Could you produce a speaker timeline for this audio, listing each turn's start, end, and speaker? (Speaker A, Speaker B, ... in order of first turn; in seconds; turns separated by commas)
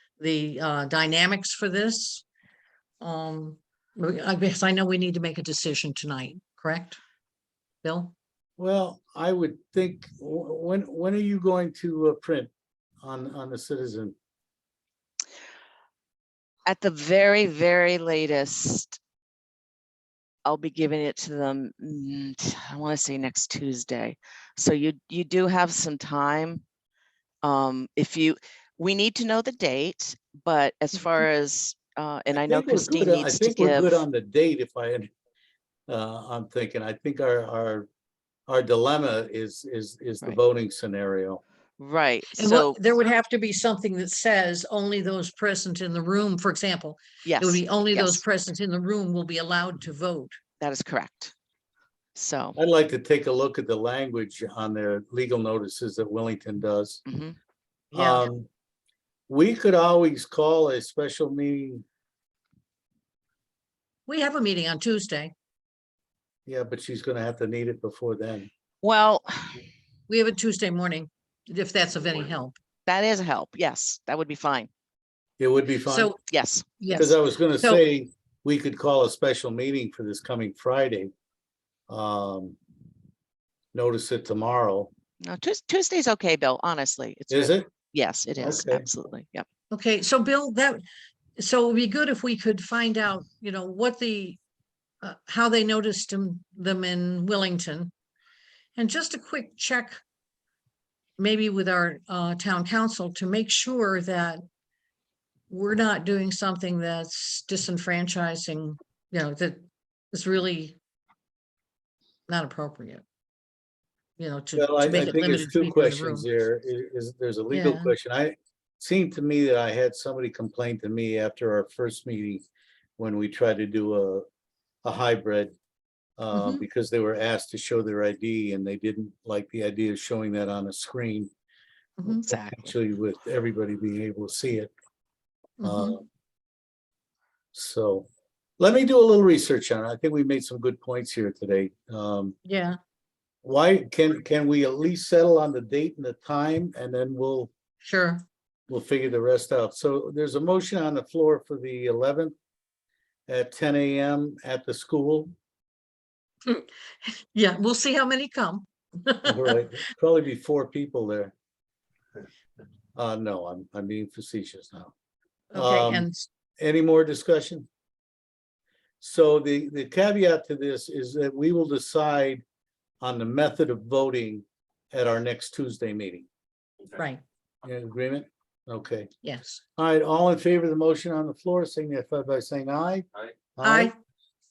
Speaker A: 0.2-2.2, Speaker A: 3.0-7.0, Speaker A: 7.8-8.1, Speaker B: 8.6-12.5, Speaker B: 13.0-14.2, Speaker C: 16.6-19.0, Speaker C: 20.4-26.6, Speaker C: 27.4-34.0, Speaker B: 32.3-35.1, Speaker B: 35.9-37.9, Speaker B: 38.5-41.4, Speaker C: 41.8-42.8, Speaker A: 42.3-50.4, Speaker C: 47.2-48.2, Speaker C: 50.6-51.3, Speaker C: 52.1-52.5, Speaker B: 52.5-57.0, Speaker C: 57.0-57.3, Speaker A: 57.9-58.2, Speaker B: 57.9-58.5, Speaker B: 59.3-61.8, Speaker A: 64.1-65.3, Speaker B: 66.5-68.5, Speaker C: 68.8-69.6, Speaker A: 70.1-72.5, Speaker C: 72.8-74.7, Speaker B: 75.4-76.1, Speaker A: 75.9-76.2, Speaker C: 76.3-76.7, Speaker A: 76.8-77.8, Speaker B: 76.9-81.1, Speaker B: 81.9-82.6, Speaker B: 83.7-84.9, Speaker C: 85.2-89.5, Speaker B: 87.3-87.7, Speaker B: 88.4-88.8, Speaker A: 89.7-90.8, Speaker A: 91.4-94.4, Speaker A: 95.0-97.9, Speaker A: 98.8-100.0, Speaker A: 101.2-104.4, Speaker A: 105.5-110.8, Speaker A: 112.3-113.0, Speaker A: 114.2-116.3, Speaker B: 114.6-122.4, Speaker A: 117.5-117.9, Speaker B: 123.0-124.2, Speaker B: 124.8-125.5, Speaker B: 126.2-131.3, Speaker A: 126.3-126.6, Speaker A: 132.0-132.2, Speaker B: 132.1-134.7, Speaker C: 132.2-132.7, Speaker A: 135.6-136.0, Speaker B: 135.6-136.0, Speaker B: 137.5-138.1, Speaker B: 138.6-142.4, Speaker A: 142.4-142.8, Speaker B: 143.4-147.5, Speaker A: 147.8-148.2, Speaker B: 148.7-152.3, Speaker B: 153.3-155.3, Speaker A: 156.4-159.6, Speaker B: 159.2-161.3, Speaker B: 162.9-164.9, Speaker A: 165.5-166.3, Speaker B: 165.5-166.1, Speaker B: 166.6-167.7, Speaker B: 169.0-172.4, Speaker B: 173.0-176.3, Speaker A: 176.9-177.2, Speaker B: 177.6-179.1, Speaker A: 179.2-179.6, Speaker B: 179.8-183.9, Speaker A: 183.6-183.9